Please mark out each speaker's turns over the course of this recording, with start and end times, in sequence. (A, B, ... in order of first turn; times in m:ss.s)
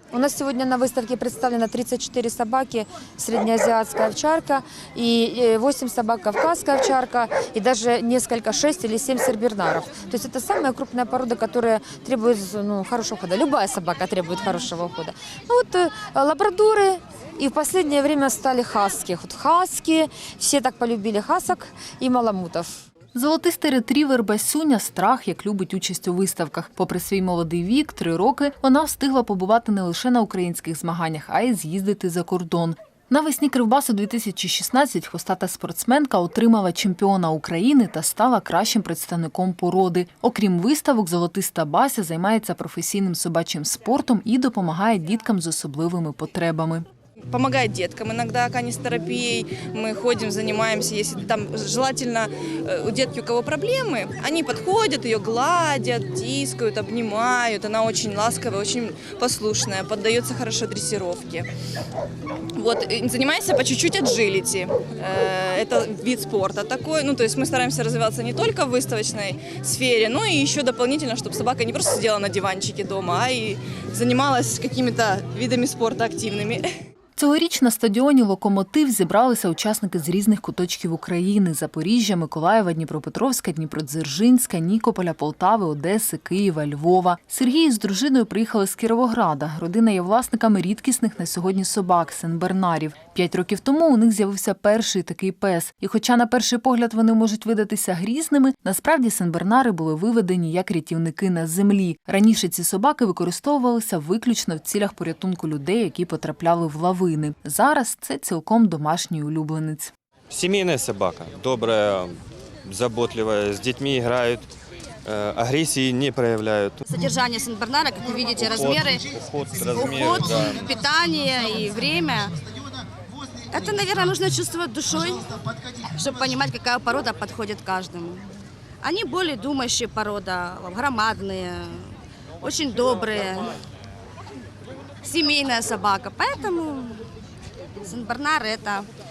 0:00.1-0:22.8 A
0:23.2-0:46.9 B
0:47.3-1:01.5 C
1:02.6-1:16.7 C
1:17.2-1:49.9 B
1:50.3-1:54.5 D
1:55.1-1:56.8 D
1:56.9-1:59.1 E
1:58.4-2:00.7 D
1:59.7-2:02.4 E
2:03.5-2:08.3 E
2:08.8-2:13.6 E
2:15.0-2:17.0 E
2:17.8-2:18.9 E